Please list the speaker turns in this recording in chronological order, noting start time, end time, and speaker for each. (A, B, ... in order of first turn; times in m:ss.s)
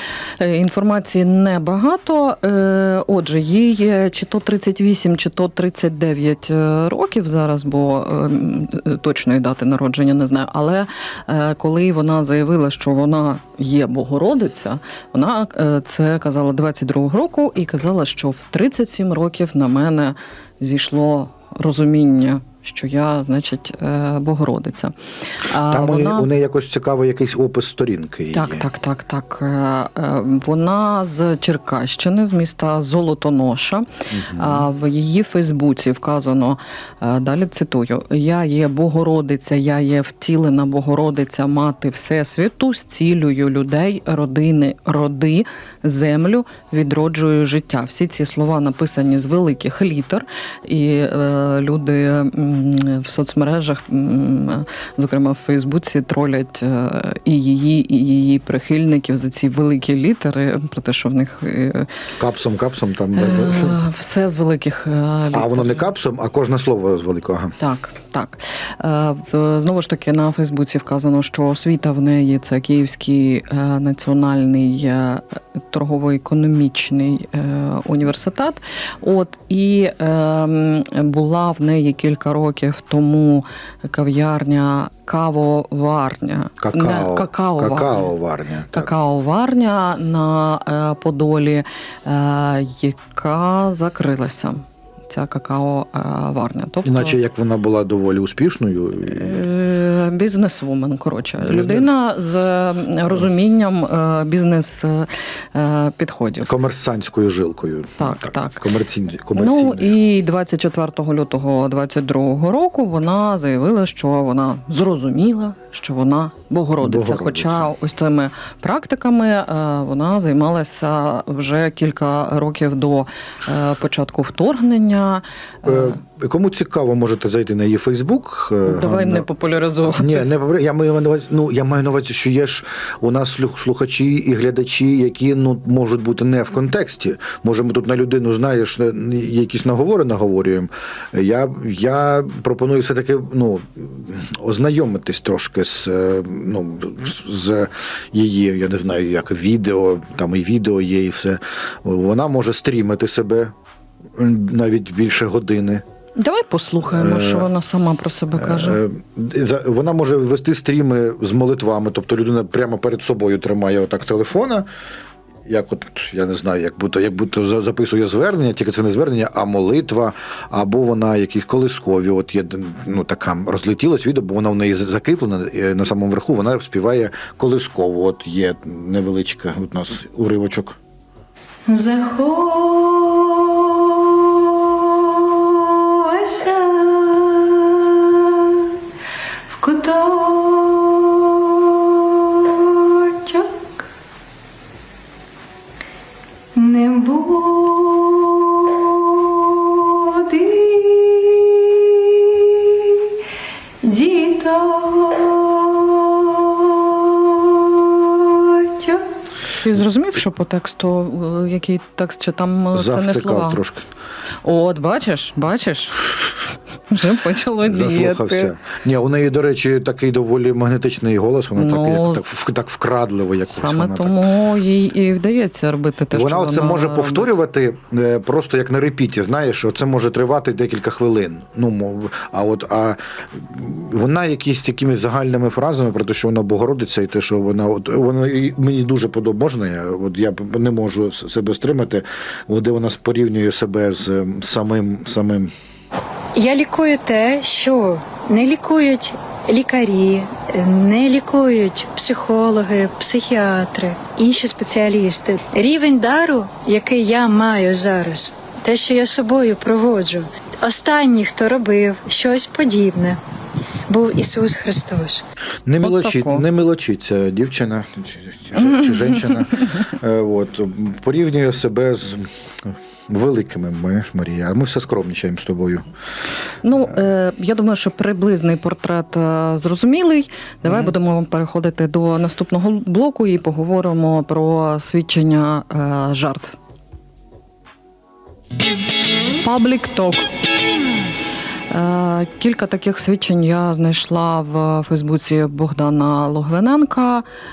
0:00.4-0:26.3 A
0:25.7-0:28.6 B
0:28.3-1:01.9 A
0:34.1-0:34.7 B
1:02.2-1:03.8 B
1:03.1-1:05.8 A
1:05.3-1:07.6 B
1:07.6-1:28.1 A
1:26.6-1:28.9 B
1:28.7-1:37.2 A
1:36.8-1:39.5 B
1:39.0-1:46.5 A
1:41.4-1:41.9 B
1:46.4-1:49.9 B
1:48.0-1:48.7 A
1:49.3-2:06.0 A
1:56.8-1:57.7 B
2:05.6-2:09.2 B
2:08.6-2:10.3 A
2:09.9-2:33.5 B
2:34.2-2:35.8 B
2:36.2-2:38.8 A
2:36.9-2:37.5 B
2:38.4-2:44.7 B
2:45.4-3:00.8 B
3:01.7-3:08.7 C
3:09.5-3:13.8 C
3:16.5-3:23.1 C
3:23.8-3:29.0 C
3:29.6-3:33.6 A
3:32.7-3:33.8 B
3:34.4-3:36.3 A
3:36.9-3:38.5 A
3:37.6-3:44.2 B
3:41.5-3:42.2 A
3:43.5-3:47.3 A
3:46.1-4:05.5 B
4:06.3-4:23.2 C
4:23.9-4:25.2 C
4:25.6-4:35.8 B
4:25.8-4:26.4 A
4:28.6-4:29.5 A
4:36.6-4:46.6 A
4:40.6-4:40.9 B
4:49.4-4:50.3 A
4:51.7-4:57.2 A